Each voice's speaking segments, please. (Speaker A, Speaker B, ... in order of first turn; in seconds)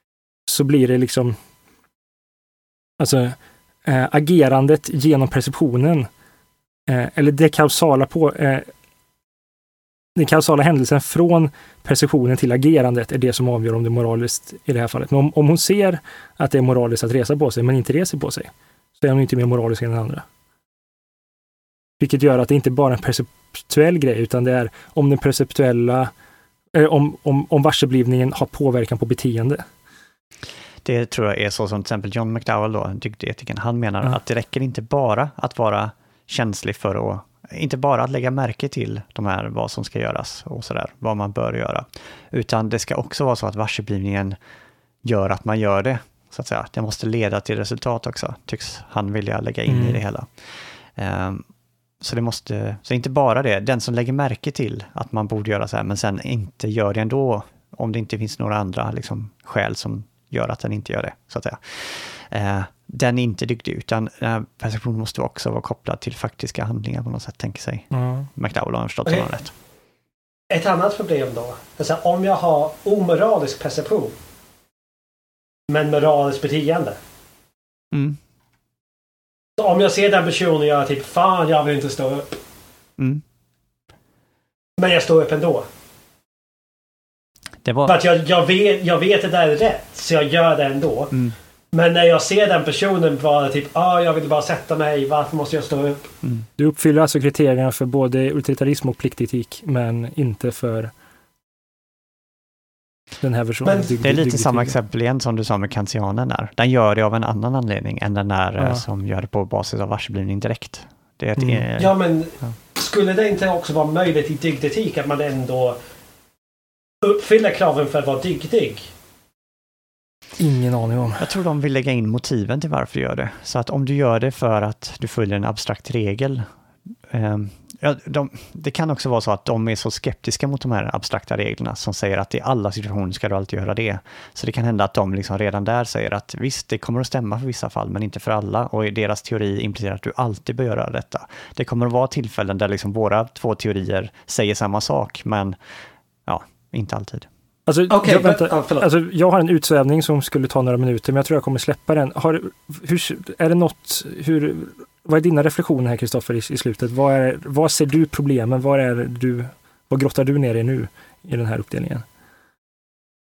Speaker A: 0.5-1.4, 3.0-6.1, 6.9-8.7, 10.2-20.2, 22.0-26.1, 26.7-29.6, 49.7-50.0, 67.9-68.3, 96.6-100.9, 103.2-104.7, 111.4-111.7, 120.4-121.3, 147.7-162.0
Speaker B: 30.8-44.4, 45.0-51.5, 52.0-69.5, 77.9-78.2, 87.6-88.0, 104.0-112.5, 121.2-126.5, 127.1-145.6, 146.2-147.3
Speaker C: 70.5-74.1, 75.7-77.0, 79.6-82.4, 84.8-85.6, 87.8-91.1, 91.7-96.1, 103.6-103.9, 111.8-115.8, 117.0-118.9, 147.9-148.9